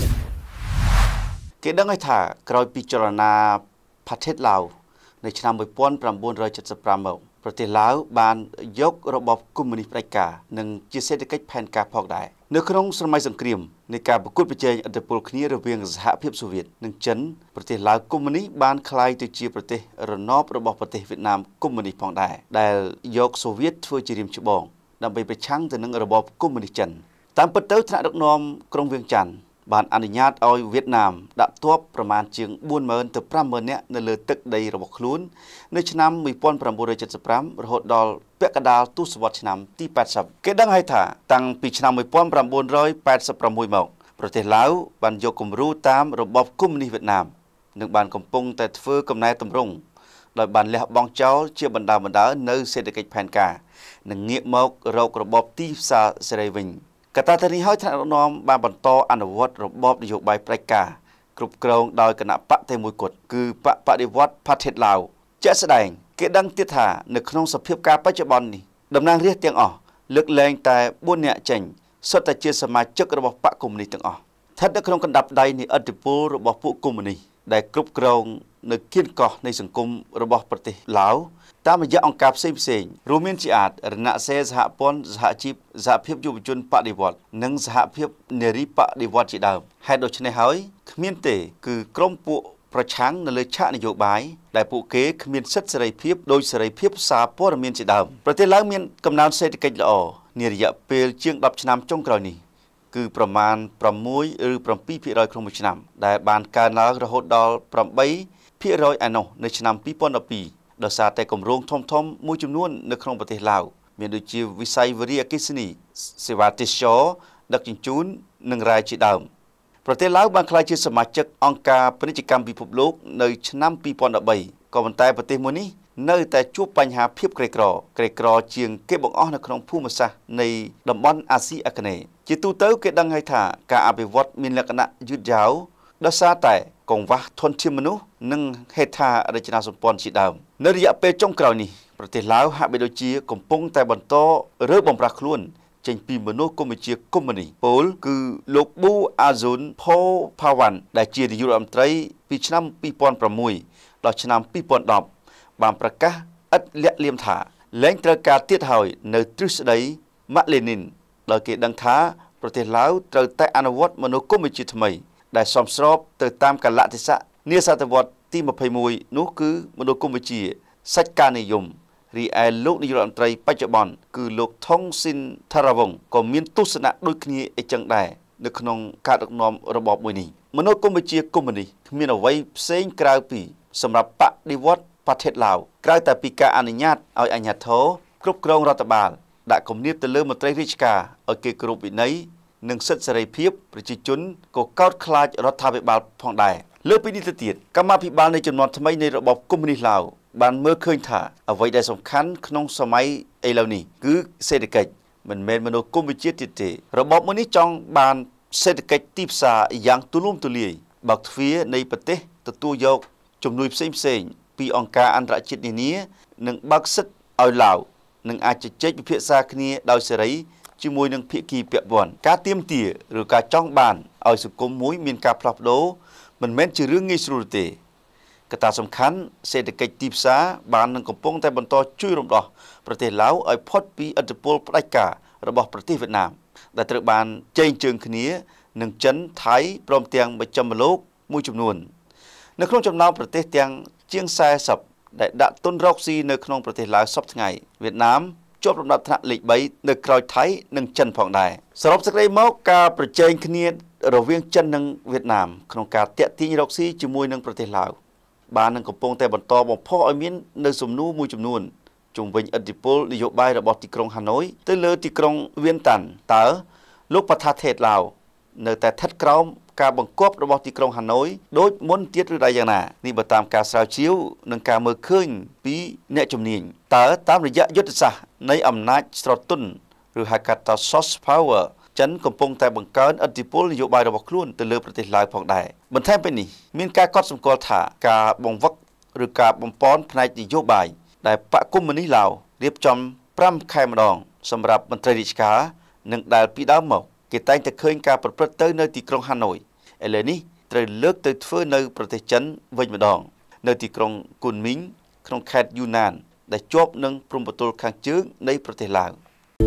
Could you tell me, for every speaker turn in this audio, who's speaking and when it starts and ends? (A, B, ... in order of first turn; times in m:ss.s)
0:01.6-0:49.8 A
0:50.3-1:42.4 A
1:42.9-1:59.3 A
1:59.8-3:47.8 A
3:48.5-4:01.9 A
4:02.6-4:18.0 A
4:18.5-5:09.2 A